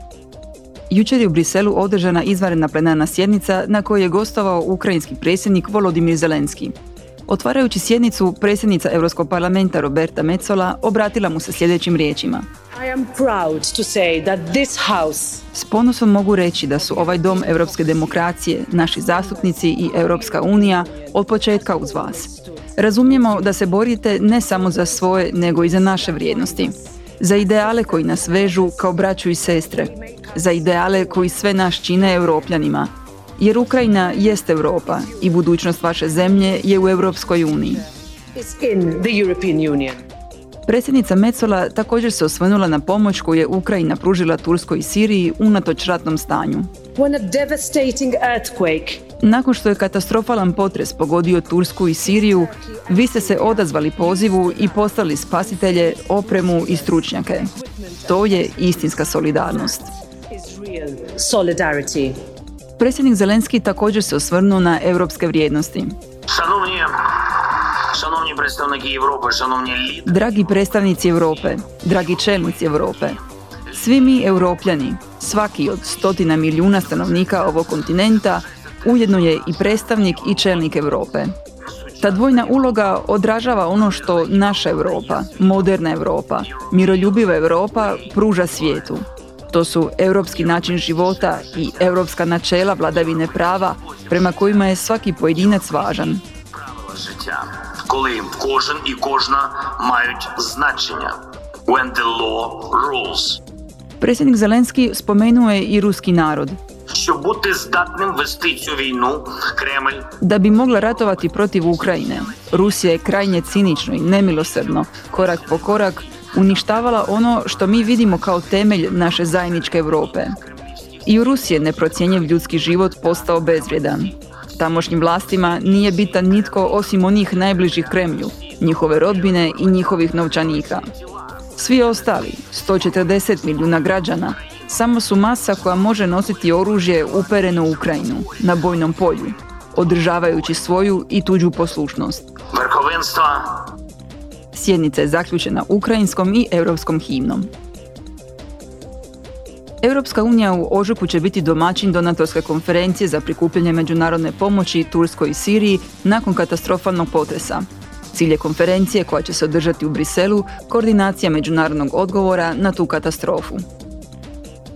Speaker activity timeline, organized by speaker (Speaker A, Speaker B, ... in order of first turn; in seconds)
Speaker A: 0.9-6.7, 7.3-12.4, 15.5-37.8, 40.7-46.7, 49.2-57.5, 58.1-59.9, 62.8-66.0, 70.0-73.2, 73.7-81.3, 82.0-96.2, 104.0-106.6, 110.2-120.4, 121.0-130.9, 131.6-142.3, 144.5-147.5, 149.8-163.6
Speaker B: 12.7-15.5, 16.7-23.7, 24.3-32.5, 34.0-40.0, 46.9-49.0, 52.0-62.2
Speaker C: 66.3-73.1, 73.7-74.3, 75.5-80.9, 81.6-85.8, 86.4-89.0, 90.2-103.4, 106.9-124.3, 125.4-134.9, 135.5-139.4, 140.1-140.7, 142.5-143.7